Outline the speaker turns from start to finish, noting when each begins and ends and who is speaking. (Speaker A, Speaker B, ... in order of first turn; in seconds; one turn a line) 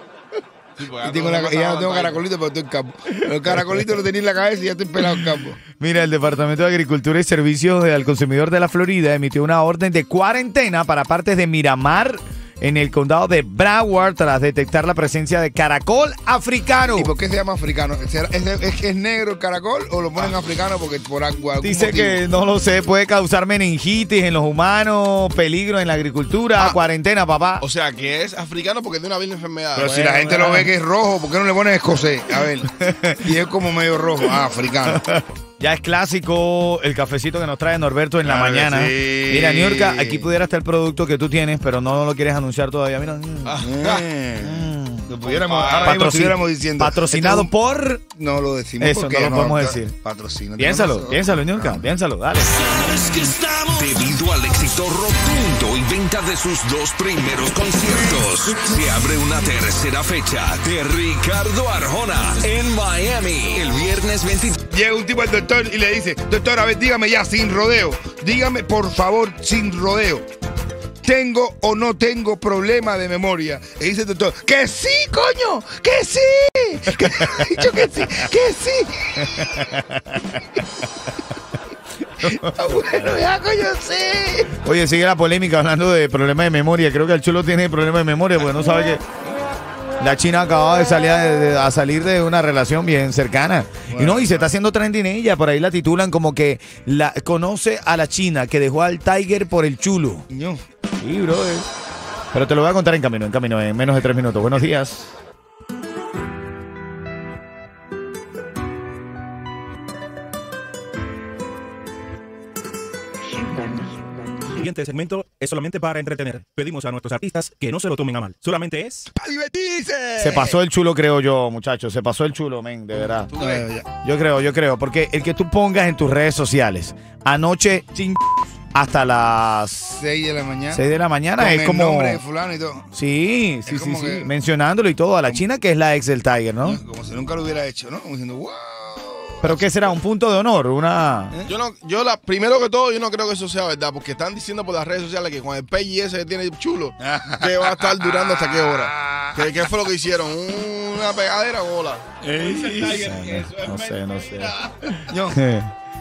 Speaker A: 0.8-2.2
Speaker B: 0.9-5.6
Speaker C: 3.4-3.8
Speaker C: 5.7-17.1
Speaker B: 16.9-22.2
Speaker C: 21.6-27.6
Speaker A: 27.6-30.5
Speaker B: 29.8-32.7
Speaker C: 30.2-30.7
Speaker C: 32.6-33.2
Speaker B: 33.2-35.0
Speaker C: 34.9-43.7
Speaker B: 38.2-40.3
Speaker A: 43.5-44.1
Speaker B: 43.6-47.5
Speaker C: 44.4-45.1
Speaker A: 45.2-46.0
Speaker C: 45.8-48.0
Speaker B: 48.1-51.8
Speaker C: 48.8-50.0
Speaker C: 50.6-52.6
Speaker D: 52.6-64.6
Speaker B: 64.7-70.2
Speaker B: 71.0-79.7
Speaker C: 76.9-78.1
Speaker C: 79.2-80.3
Speaker C: 82.2-83.1
Speaker B: 82.2-84.5
Speaker C: 84.5-89.0
Speaker C: 90.0-100.3
Speaker B: 93.9-94.5
Speaker B: 100.3-100.6
Speaker C: 101.0-101.7
Speaker C: 102.3-105.2
Speaker E: 114.5-119.0
Speaker B: 119.1-120.6
Speaker C: 120.2-123.3
Speaker A: 123.3-123.7
Speaker B: 123.4-123.9
Speaker C: 124.0-130.0
Speaker B: 130.0-130.8
Speaker C: 130.7-132.2
Speaker B: 131.4-132.9
Speaker C: 132.9-136.8
Speaker B: 133.7-134.3
Speaker B: 136.6-139.9
Speaker C: 139.4-141.3
Speaker A: 141.4-154.5
Speaker B: 147.0-149.7
Speaker B: 152.4-152.7
Speaker C: 152.8-154.6
Speaker B: 154.9-155.4
Speaker C: 155.3-155.7